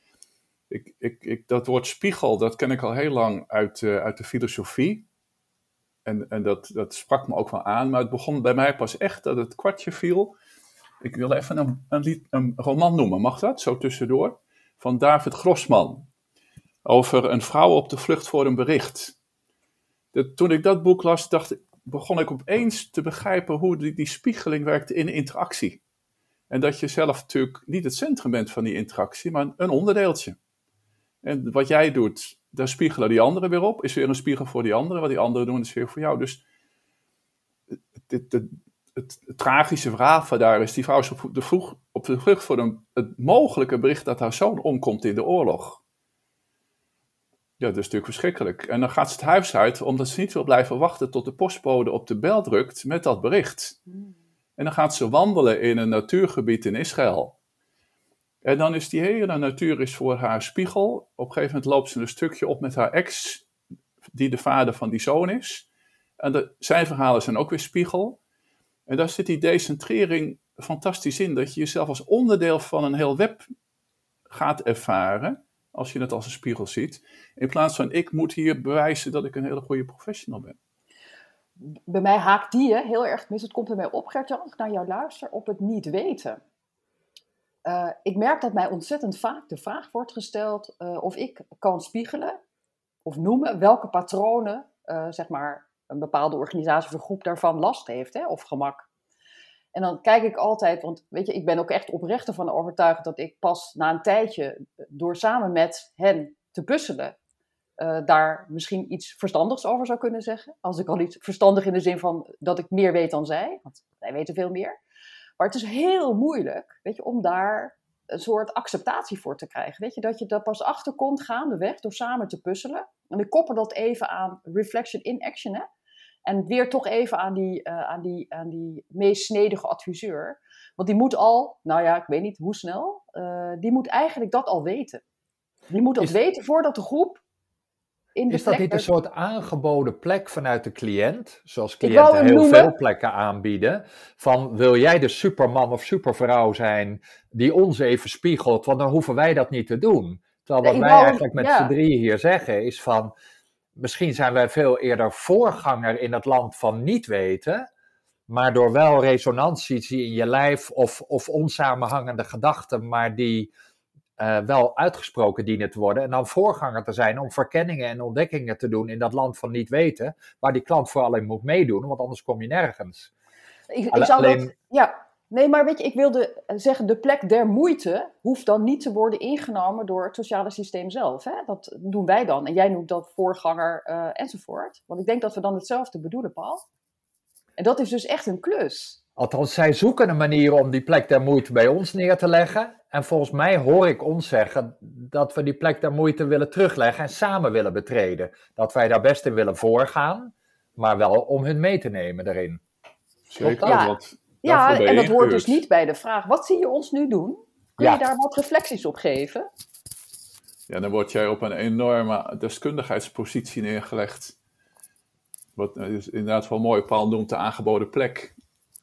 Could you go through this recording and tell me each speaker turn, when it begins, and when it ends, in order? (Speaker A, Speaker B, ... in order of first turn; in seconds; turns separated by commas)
Speaker A: 0.7-5.0, Speaker A: 6.0-10.3, Speaker A: 11.0-16.1, Speaker A: 16.8-19.1, Speaker A: 20.1-25.8, Speaker A: 26.5-30.4, Speaker A: 31.2-36.4, Speaker A: 38.0-45.8, Speaker A: 47.6-53.8, Speaker A: 54.6-57.3, Speaker A: 58.4-63.5, Speaker A: 64.0-65.7, Speaker A: 66.2-68.2, Speaker A: 68.9-73.5, Speaker A: 74.3-80.6, Speaker B: 81.6-86.4, Speaker B: 87.6-92.4, Speaker B: 93.0-98.8, Speaker B: 99.7-107.1, Speaker B: 107.8-114.8, Speaker B: 115.4-125.7, Speaker B: 126.2-135.0, Speaker B: 135.7-137.2, Speaker B: 138.2-138.8, Speaker C: 138.3-153.1, Speaker B: 141.8-142.7, Speaker B: 150.6-151.7, Speaker C: 153.8-157.7, Speaker C: 158.3-163.5, Speaker C: 164.2-173.1, Speaker B: 173.7-186.6, Speaker C: 173.9-174.5, Speaker B: 187.6-189.0, Speaker C: 189.2-202.6, Speaker A: 203.3-205.6, Speaker C: 203.4-203.8, Speaker B: 203.6-209.5, Speaker A: 210.7-214.3, Speaker A: 215.6-218.3